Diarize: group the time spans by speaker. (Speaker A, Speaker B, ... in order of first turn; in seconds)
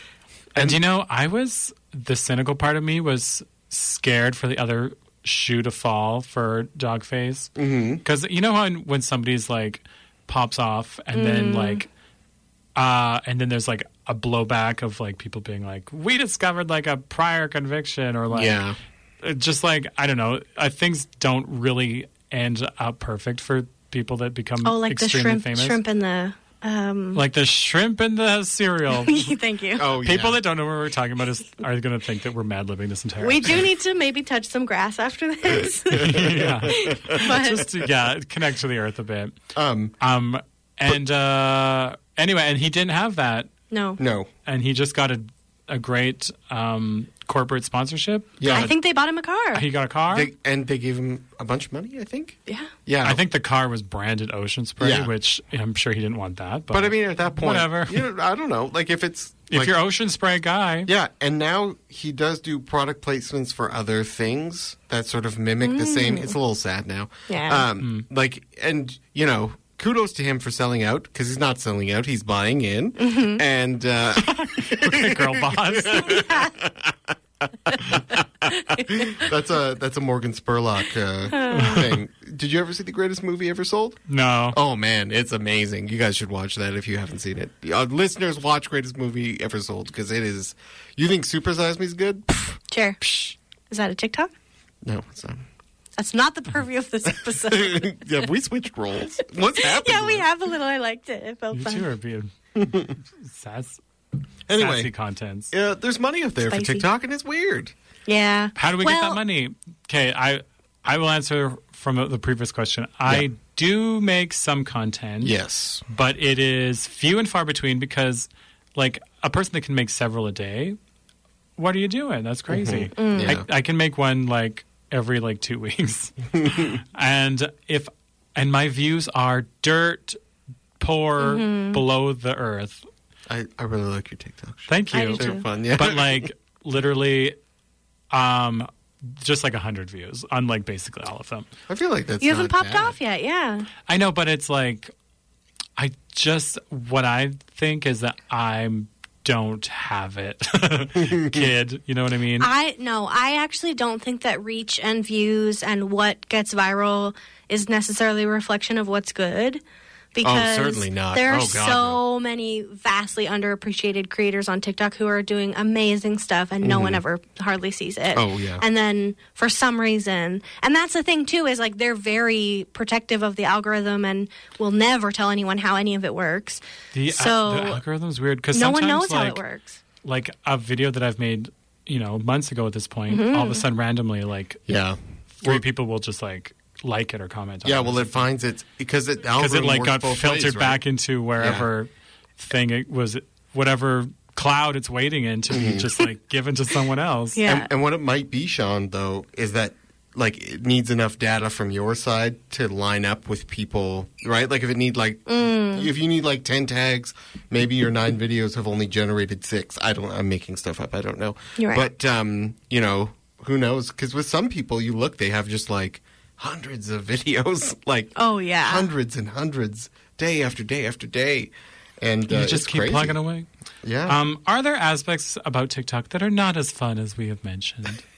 Speaker A: 0.6-11.9, 12.8-18.7, 19.2-25.8, 27.1-29.4, 30.0-33.7, 35.9-39.4, 40.0-43.5, 44.5-48.8, 49.5-50.3, 53.0-58.0, 59.5-60.9, 67.8-68.0, 74.2-76.2, 81.5-82.0, 84.1-84.6, 101.5-103.8, 104.5-105.5, 108.6-115.3, 115.9-120.8, 121.6-130.2, 130.8-132.8, 134.7-137.3, 138.1-141.5, 143.9-144.9, 145.8-152.5, 176.9-179.4, 180.0-184.6, 185.4-188.2, 189.4-197.4, 222.3-223.5, 224.1-228.0
Speaker B: 7.6-8.0, 18.3-18.8, 29.8-30.4, 36.2-37.2, 39.5-40.0, 44.0-44.3, 48.4-48.7, 50.1-53.2, 54.8-55.1, 56.7-59.7, 60.9-84.0, 84.5-92.6, 94.8-95.4, 97.3-100.3, 102.6-102.9, 104.5-104.9, 105.5-107.7, 115.2-115.8, 122.5-123.5, 126.3-126.8, 133.3-136.3, 141.7-142.9, 151.0-151.5, 160.2-162.0, 166.6-167.0, 168.1-168.6, 184.7-185.6, 187.6-190.8, 191.4-191.7, 195.5-195.9, 197.4-223.2, 223.8-224.2
Speaker C: 11.1-11.8, 24.6-27.2, 28.9-29.9, 33.2-37.7, 43.7-44.0, 48.5-49.6, 65.6-66.3, 67.3-67.7, 73.0-73.4, 76.1-76.5, 78.5-79.1, 81.3-81.8, 92.7-93.1, 93.7-94.3, 96.0-98.0, 99.5-101.9, 106.5-106.8, 108.1-109.2, 123.0-123.3, 131.2-131.8, 134.9-135.4, 142.2-143.7, 152.4-159.6, 160.2-177.8, 178.5-179.8, 183.1-183.6, 197.4-197.7, 205.3-205.9, 211.6-211.9, 218.2-218.9